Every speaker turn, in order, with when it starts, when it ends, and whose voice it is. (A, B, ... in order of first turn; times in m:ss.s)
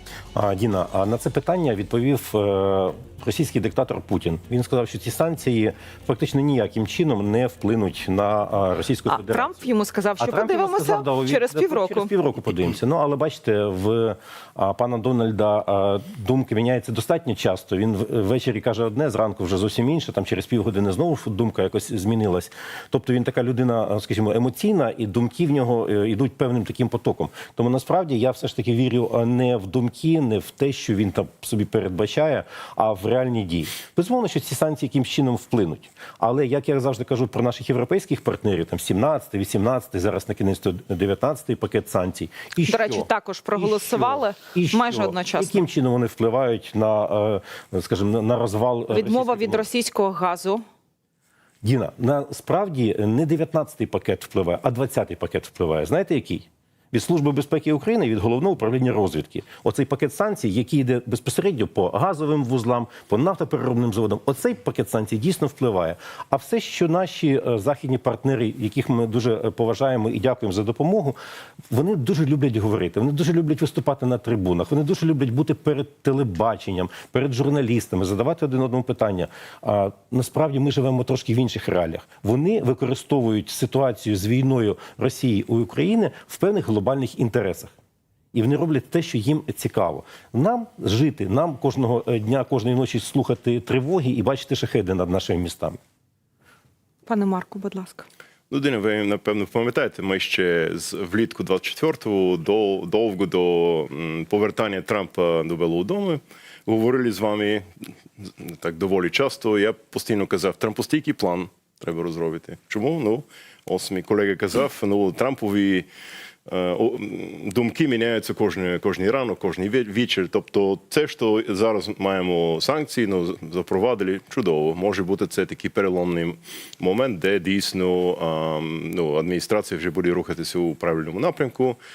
0:00.4-0:09.6 A
0:09.1-0:12.1 B
0:10.2-0:49.7 A
0:42.7-0:45.6 B
0:48.9-0:50.6 B
0:51.6-1:11.2 A
1:11.7-1:27.7 A
1:28.3-1:35.8 A
1:37.1-1:38.1 B
1:38.5-1:47.6 C
1:48.2-1:55.9 C
1:56.5-2:11.8 C